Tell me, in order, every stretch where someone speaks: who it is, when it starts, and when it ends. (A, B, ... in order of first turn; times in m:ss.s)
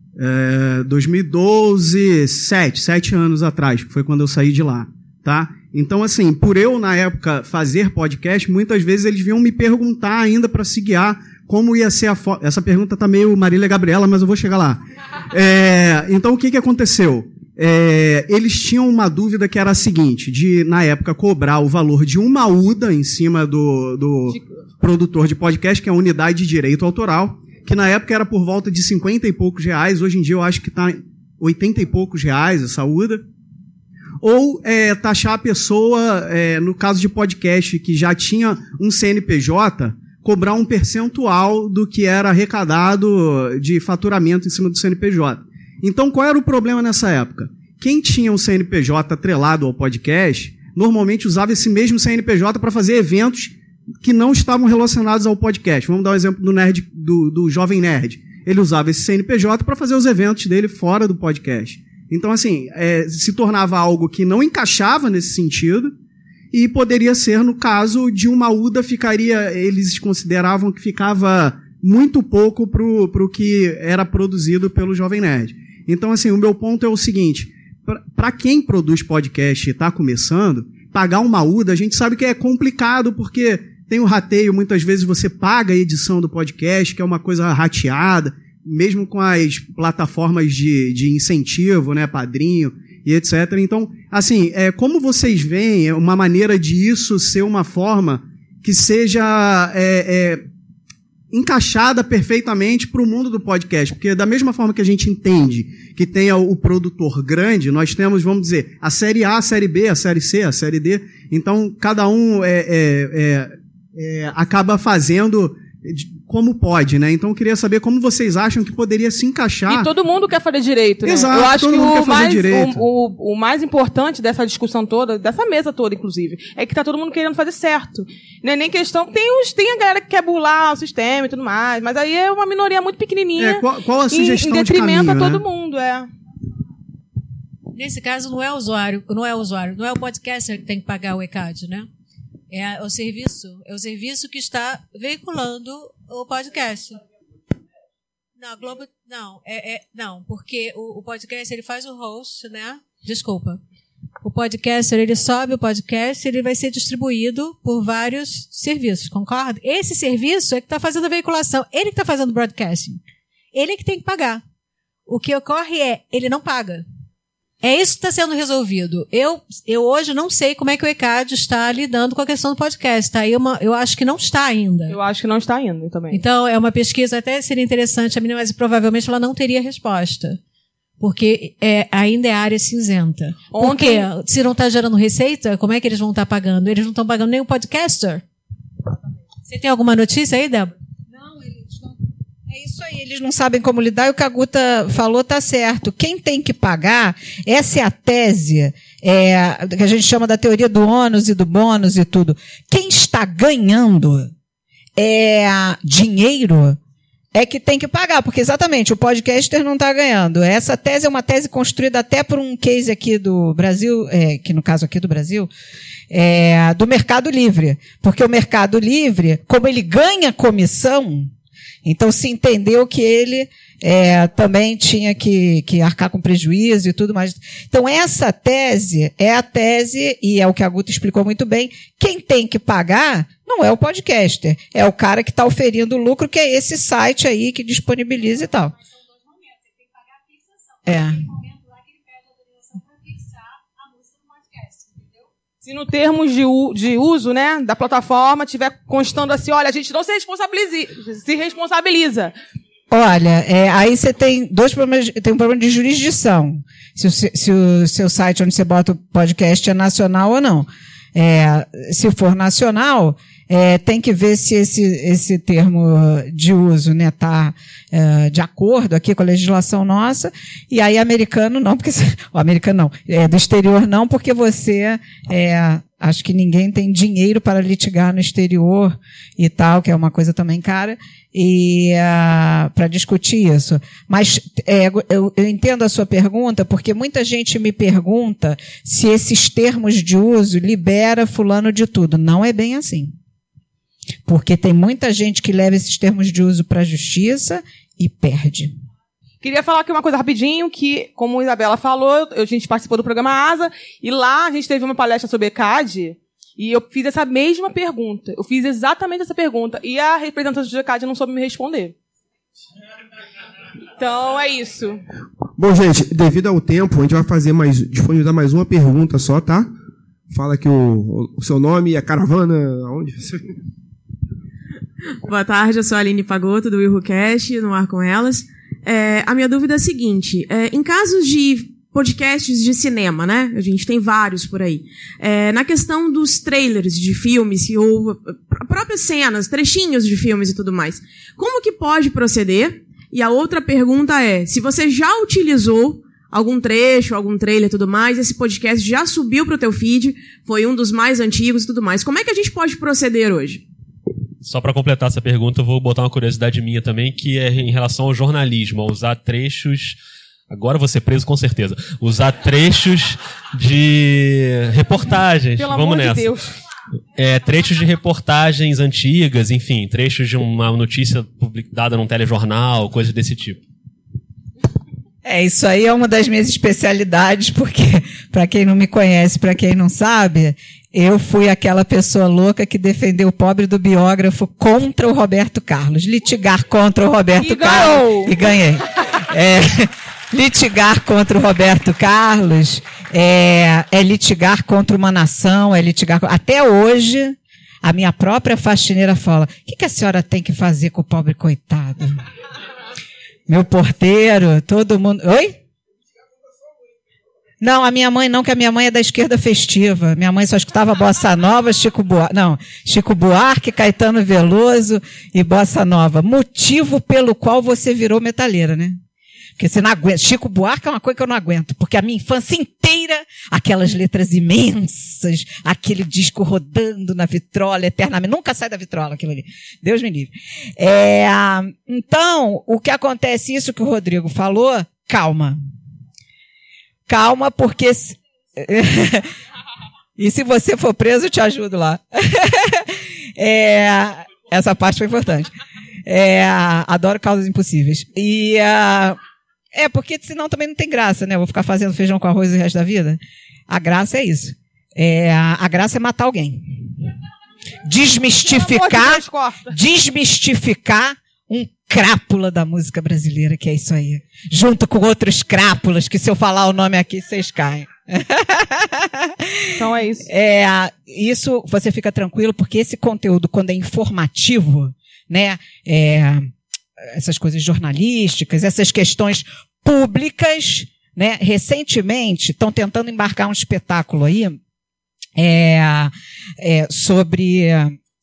0:00.2-0:14.8 A
0:15.3-0:33.2 A
0:34.2-1:05.9 A
1:06.5-1:40.4 A
1:41.3-1:59.9 A
1:59.7-2:16.1 B
2:01.1-2:02.8 A
2:13.4-2:15.4 A
2:17.7-2:21.9 C
2:22.5-2:27.0 C
2:28.4-2:33.6 C
2:34.2-2:43.0 C
2:43.5-2:44.4 C
2:45.1-2:46.8 C
2:47.6-2:55.0 C
2:54.9-2:56.2 B
2:56.1-3:00.4 C
3:01.0-3:08.2 C
3:03.5-3:04.0 B
3:09.4-3:10.7 C
3:11.1-3:11.9 D
3:12.5-3:24.3 D
3:25.0-3:26.8 D
3:27.3-3:35.5 D
3:36.1-3:41.3 D
3:41.8-3:58.8 D
4:00.8-4:01.4 D
4:02.7-4:03.2 C
4:04.1-4:04.8 C
4:05.6-4:12.3 B
4:12.9-4:53.1 D
4:54.2-4:58.7 D
4:59.4-5:11.9 B
5:14.0-5:15.0 B
5:15.6-5:19.7 E
5:20.3-5:23.4 E
5:25.2-5:53.6 F
5:54.4-6:00.0 G
6:00.5-6:06.3 G
6:05.6-6:06.5 B
6:07.2-6:13.6 G
6:15.2-6:42.2 D
6:27.4-6:28.4 B
6:43.5-6:45.6 D
6:47.6-6:59.0 D
6:59.6-7:15.6 D
7:17.1-7:19.3 D
7:20.2-7:25.5 D
7:26.0-7:29.2 D
7:29.7-7:36.8 D
7:37.8-7:49.6 D
7:38.4-7:39.8 B
7:49.8-7:50.3 B
7:50.2-7:56.5 D
7:57.0-8:04.6 D
8:05.4-8:08.0 D